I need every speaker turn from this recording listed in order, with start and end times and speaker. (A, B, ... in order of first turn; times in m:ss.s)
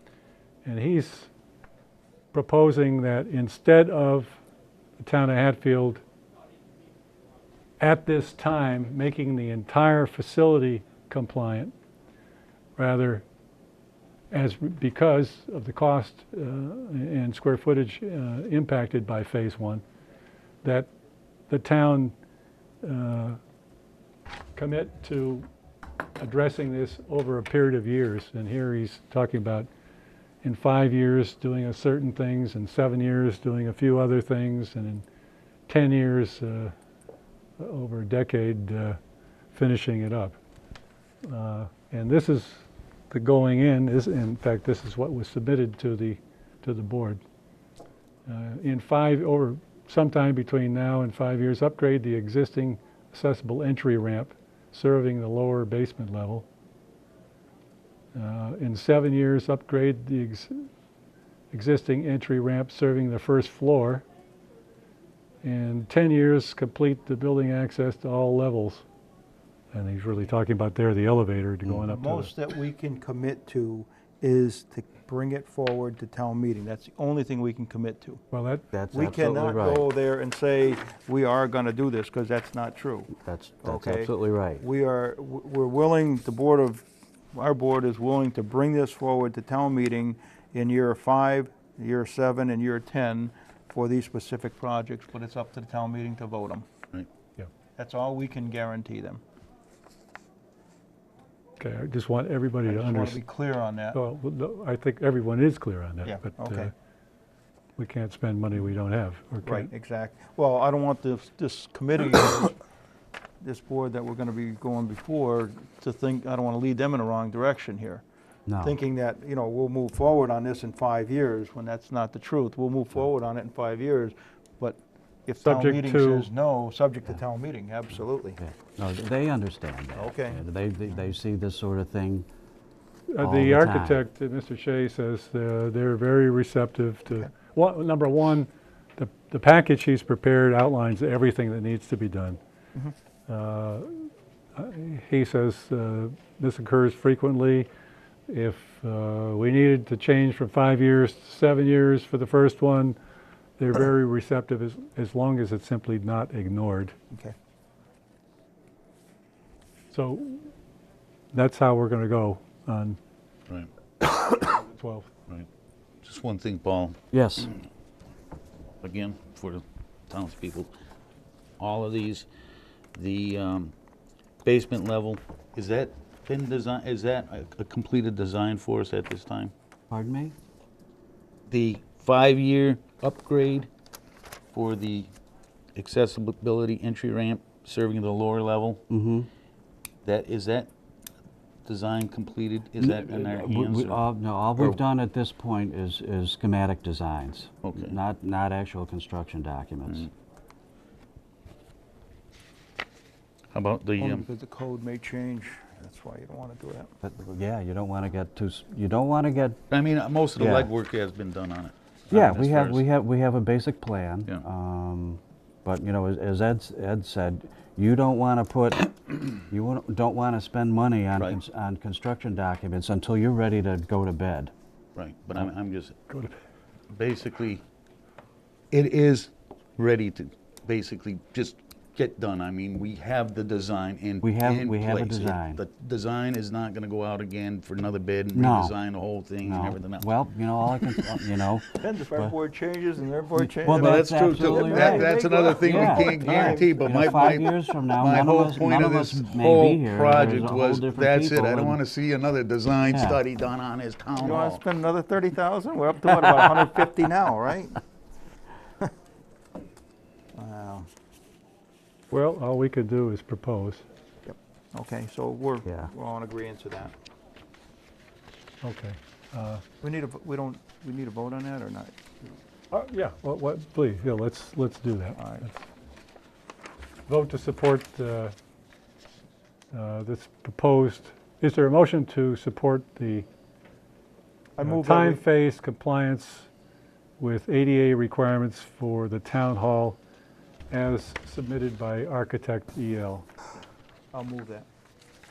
0:00.6-0:01.3 A
0:02.3-0:04.4 A
0:05.0-0:06.0 A
0:07.8-0:11.7 A
0:12.8-0:13.2 A
0:14.3-0:19.8 A
0:20.6-0:20.9 A
0:21.5-0:22.2 A
0:22.8-0:23.4 A
0:24.6-0:25.5 A
0:26.2-0:29.7 A
0:30.4-0:35.0 A
0:35.7-0:36.7 A
0:37.6-0:39.0 A
0:39.5-0:40.4 A
0:41.2-0:47.2 A
0:48.3-0:56.5 A
0:58.1-1:00.7 A
1:01.5-1:04.0 A
1:05.4-1:08.8 A
1:09.7-1:12.3 A
1:11.9-1:18.2 B
1:18.3-1:18.6 A
1:18.7-1:19.9 C
1:18.9-1:23.1 B
1:23.2-1:24.6 C
1:23.6-1:36.7 B
1:37.8-1:39.2 B
1:41.6-1:43.2 A
1:42.7-1:44.0 B
1:43.9-1:46.7 A
1:46.0-1:46.7 B
1:47.8-1:49.7 A
1:49.4-1:52.6 B
1:53.4-1:58.0 B
1:58.5-1:58.8 C
1:58.6-2:08.4 B
2:05.4-2:06.3 A
2:08.4-2:12.3 C
2:10.0-2:10.4 B
2:13.1-2:22.4 A
2:13.2-2:14.0 C
2:23.3-2:27.7 A
2:28.3-2:33.0 A
2:33.6-2:37.0 A
2:39.9-2:40.5 A
2:41.3-2:43.0 A
2:44.4-2:45.1 A
2:46.0-2:47.6 D
2:47.1-2:47.5 C
2:48.8-2:50.7 D
2:51.6-2:52.3 D
2:53.0-2:53.7 D
2:54.4-2:59.5 D
2:59.9-3:00.4 C
3:01.5-3:03.7 D
3:04.5-3:05.1 D
3:05.8-3:08.8 D
3:08.9-3:09.3 C
3:10.0-3:10.7 D
3:11.7-3:14.0 D
3:12.8-3:20.1 C
3:17.6-3:18.0 D
3:23.5-3:24.3 D
3:24.0-3:26.9 B
3:27.0-3:29.6 C
3:29.7-3:32.8 D
3:30.4-3:30.7 C
3:32.1-3:44.5 C
3:45.0-3:46.0 D
3:46.9-3:47.6 D
3:48.7-4:00.1 D
3:54.2-3:55.6 C
3:58.3-3:58.8 C
3:59.4-4:02.4 C
4:01.8-4:07.0 B
4:03.4-4:11.8 C
4:03.6-4:14.6 D
4:12.9-4:13.2 C
4:14.2-4:17.8 B
4:20.4-4:20.9 B
4:22.1-4:23.8 A
4:24.3-4:26.9 B
4:28.6-4:29.6 A
4:29.8-4:32.3 B
4:32.7-4:35.6 A
4:35.2-4:35.5 B
4:37.1-4:38.4 A
4:39.7-4:43.3 A
4:44.6-4:45.2 B
4:44.6-4:46.5 A
4:47.2-4:50.0 A
4:50.7-4:53.3 A
4:54.1-4:54.7 B